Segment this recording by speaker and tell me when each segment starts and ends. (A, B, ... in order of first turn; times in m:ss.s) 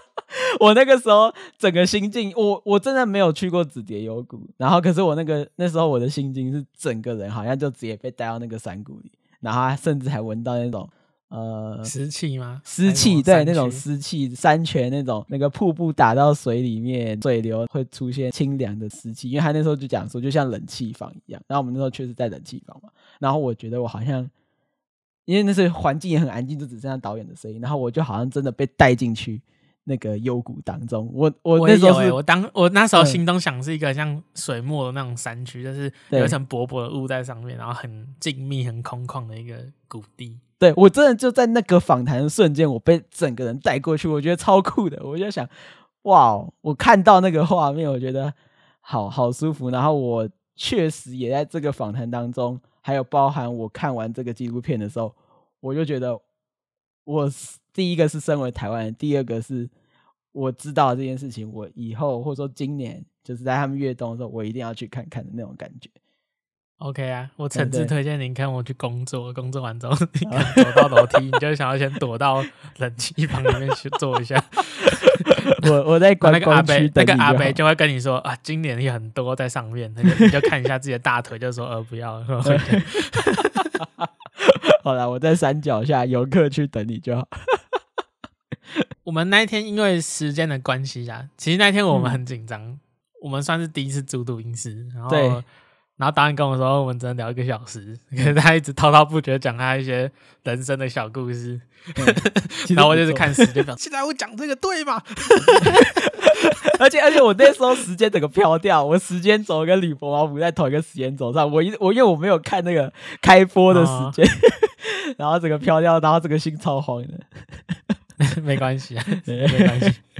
0:00.3-0:11.9 A
0:11.8-0:13.8 B
0:12.6-0:24.3 A
0:25.2-0:32.2 A
0:31.6-0:40.4 B
0:36.1-0:36.3 A
0:40.6-0:56.2 A
0:57.0-0:59.7 A
1:00.3-1:05.9 A
1:06.8-1:15.6 B
1:07.5-1:07.9 A
1:10.3-1:11.0 A
1:15.5-1:17.6 A
1:16.2-1:23.7 B
1:22.4-1:27.6 A
1:29.0-1:46.3 B
1:31.9-1:32.2 A
1:35.1-1:35.4 A
1:42.0-1:43.4 A
1:45.5-1:57.9 A
1:53.7-1:54.2 B
1:58.2-2:00.0 B
1:59.2-1:59.9 A